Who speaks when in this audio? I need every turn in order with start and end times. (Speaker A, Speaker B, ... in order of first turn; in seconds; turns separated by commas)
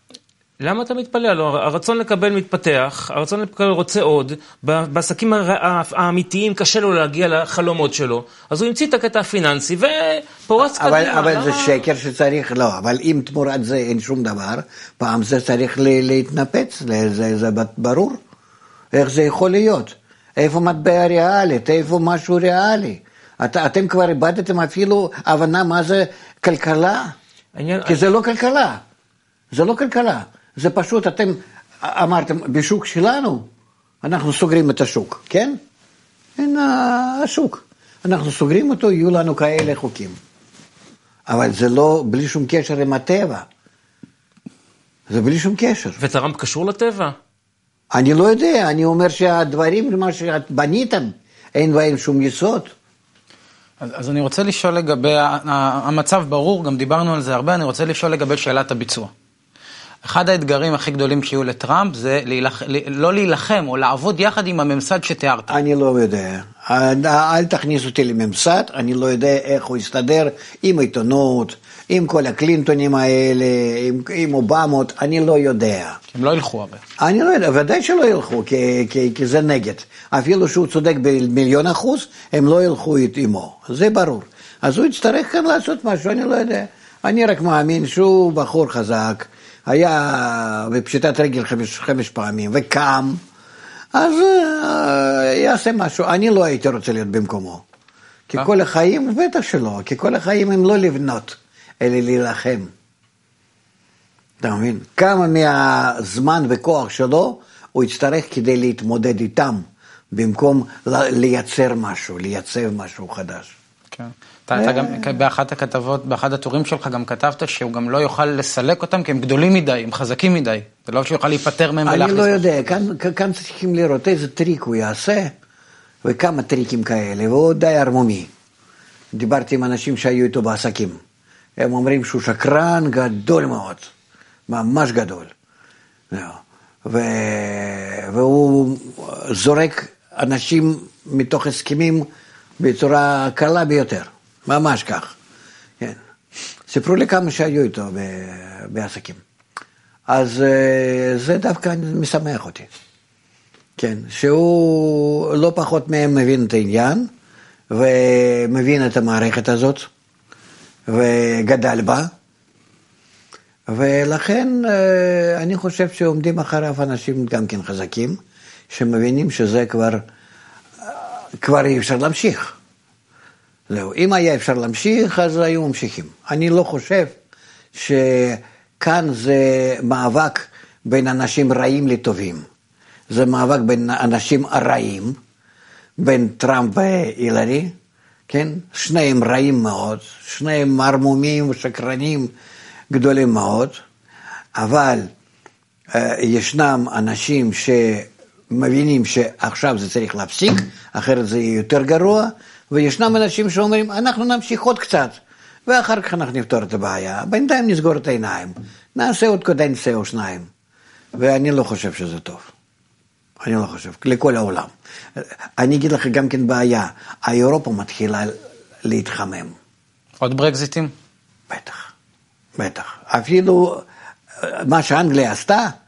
Speaker A: 0.6-11.8, Speaker B: 10.6-18.2, Speaker B: 18.9-27.1, Speaker A: 27.5-28.0, Speaker B: 27.9-28.8, Speaker B: 29.5-33.5, Speaker B: 34.0-35.6, Speaker B: 36.4-40.2, Speaker B: 41.3-43.5, Speaker B: 45.1-46.0, Speaker A: 46.0-47.1, Speaker B: 47.9-52.7, Speaker C: 53.8-59.1, Speaker C: 60.0-65.5, Speaker B: 65.5-76.0, Speaker C: 76.1-76.8, Speaker B: 77.0-93.2, Speaker B: 93.9-97.6, Speaker B: 98.3-102.7, Speaker B: 104.4-113.5, Speaker C: 113.9-122.7, Speaker B: 114.5-115.1, Speaker B: 121.8-125.3, Speaker B: 126.0-128.3, Speaker B: 129.1-131.0, Speaker B: 131.6-133.9, Speaker B: 134.5-135.3, Speaker B: 136.1-142.1, Speaker B: 142.6-145.2, Speaker B: 146.7-149.2, Speaker B: 150.1-152.7, Speaker B: 153.8-157.1, Speaker B: 157.7-159.9, Speaker B: 160.9-162.1, Speaker B: 163.7-168.2, Speaker B: 168.7-170.0, Speaker B: 170.8-172.6, Speaker B: 173.7-177.1, Speaker B: 177.7-182.4, Speaker B: 183.1-185.2, Speaker B: 186.0-187.7, Speaker B: 188.3-192.3, Speaker B: 192.9-193.8, Speaker B: 194.5-195.1, Speaker B: 195.9-210.5, Speaker B: 211.1-212.5, Speaker B: 213.4-219.6, Speaker C: 220.2-220.9, Speaker B: 221.5-221.9, Speaker B: 222.6-223.8, Speaker B: 224.3-225.7